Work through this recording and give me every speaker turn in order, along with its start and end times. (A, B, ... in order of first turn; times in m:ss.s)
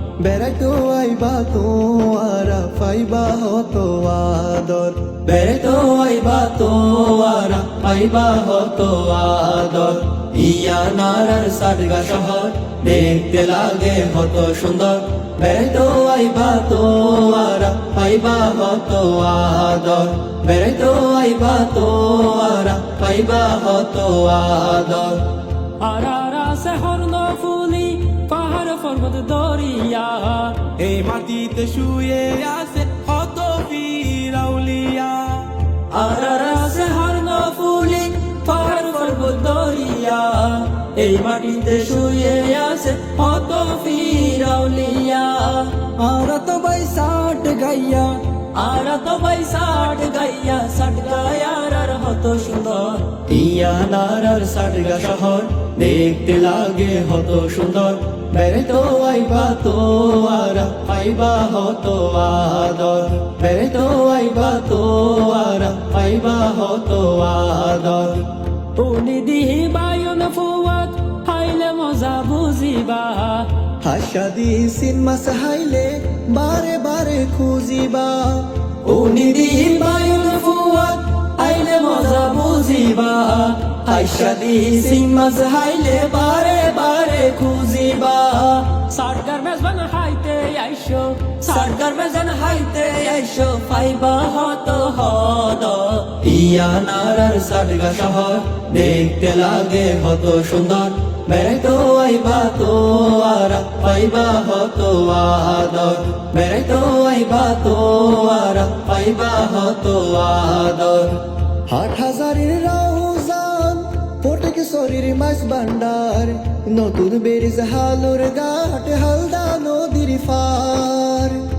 0:00.2-0:05.0 A
0:05.2-0:25.2 B
0:25.8-0:30.7 B
0:30.8-0:35.5 C
0:35.9-1:08.2 B
1:08.8-1:13.5 B
1:13.8-1:18.5 A
1:18.8-1:51.2 B
1:51.7-2:01.4 A